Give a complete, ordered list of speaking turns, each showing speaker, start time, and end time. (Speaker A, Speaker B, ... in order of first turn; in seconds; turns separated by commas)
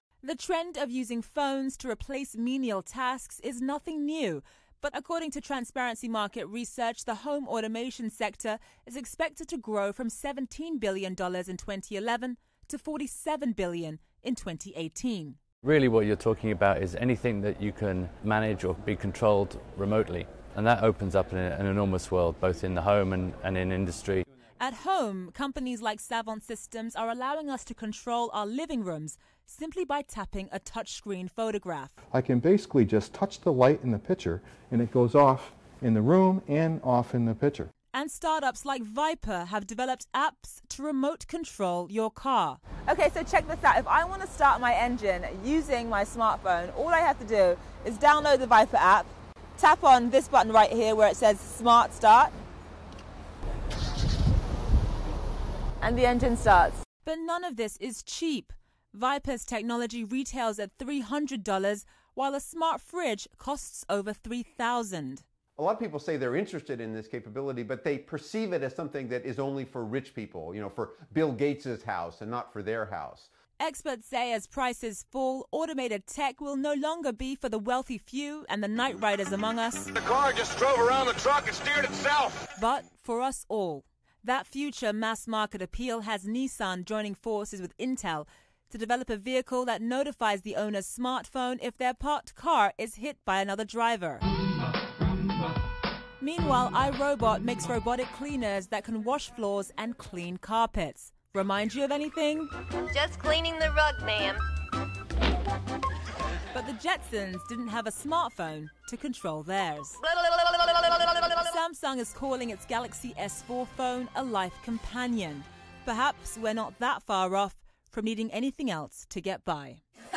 Speaker A: 0.2-15.4, Speaker B: 15.6-24.2, Speaker A: 24.6-32.0, Speaker C: 32.1-37.7, Speaker A: 37.9-52.3, Speaker A: 55.8-65.2, Speaker D: 65.6-73.3, Speaker A: 73.6-79.9, Speaker E: 80.0-82.5, Speaker A: 82.5-94.2, Speaker A: 96.2-102.5, Speaker F: 102.9-104.4, Speaker A: 106.5-110.0, Speaker F: 110.1-111.1, Speaker A: 111.1-119.8